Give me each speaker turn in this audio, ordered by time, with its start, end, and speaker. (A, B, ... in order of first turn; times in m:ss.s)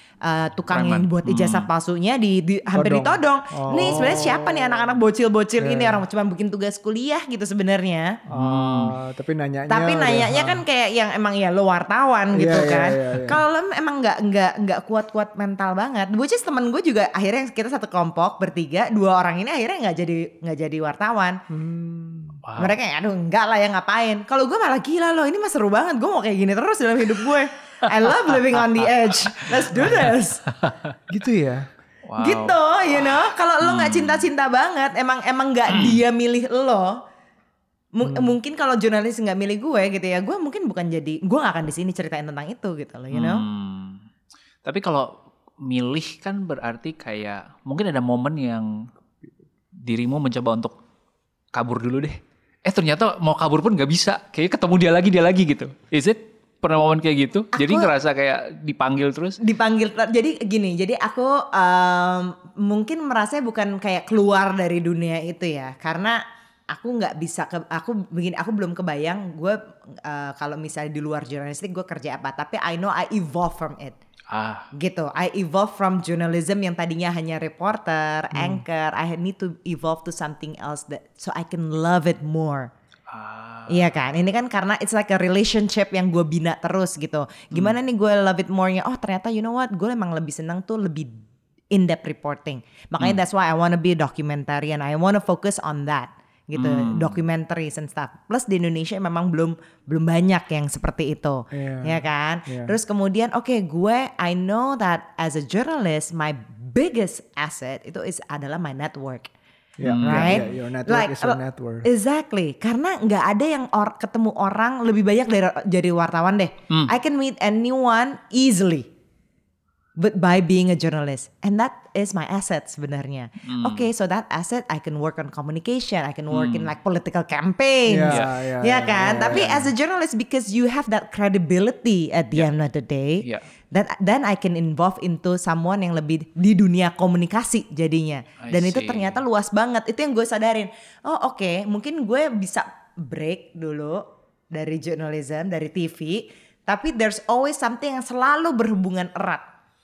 0:00.2-0:08.2 A
0:00.7-0:01.7 B
0:02.7-0:04.9 C
0:05.6-0:06.0 C
0:08.3-0:10.6 C
0:08.3-0:09.0 B
0:09.7-0:21.4 A
0:12.3-0:13.4 C
0:21.5-0:22.4 C
0:22.4-0:22.8 B
0:22.6-0:30.4 A
0:31.1-0:31.7 C
0:32.1-0:32.6 B
0:32.2-0:37.0 A
0:33.6-0:34.3 B
0:35.7-0:36.0 B
0:38.0-0:43.4 A
0:38.0-0:38.4 C
0:43.1-0:44.0 B
0:44.6-0:45.1 B
0:45.6-0:48.9 B
0:49.8-0:50.8 B
0:51.5-0:59.4 B
0:57.5-0:57.9 A
0:59.4-1:14.0 A
1:14.3-1:14.7 B
1:14.7-1:22.7 A
1:18.3-1:18.6 C
1:23.1-1:24.0 B
1:23.7-1:31.2 A
1:31.7-1:49.3 A
1:36.6-1:37.2 B
1:41.5-1:42.7 C
1:49.8-1:51.9 C
1:49.8-1:50.5 B
1:50.0-1:58.9 A
2:00.0-2:29.4 A
2:03.5-2:03.9 B
2:06.3-2:06.7 B
2:07.9-2:09.7 C
2:08.1-2:08.3 B
2:13.2-2:13.5 B
2:18.4-2:19.2 B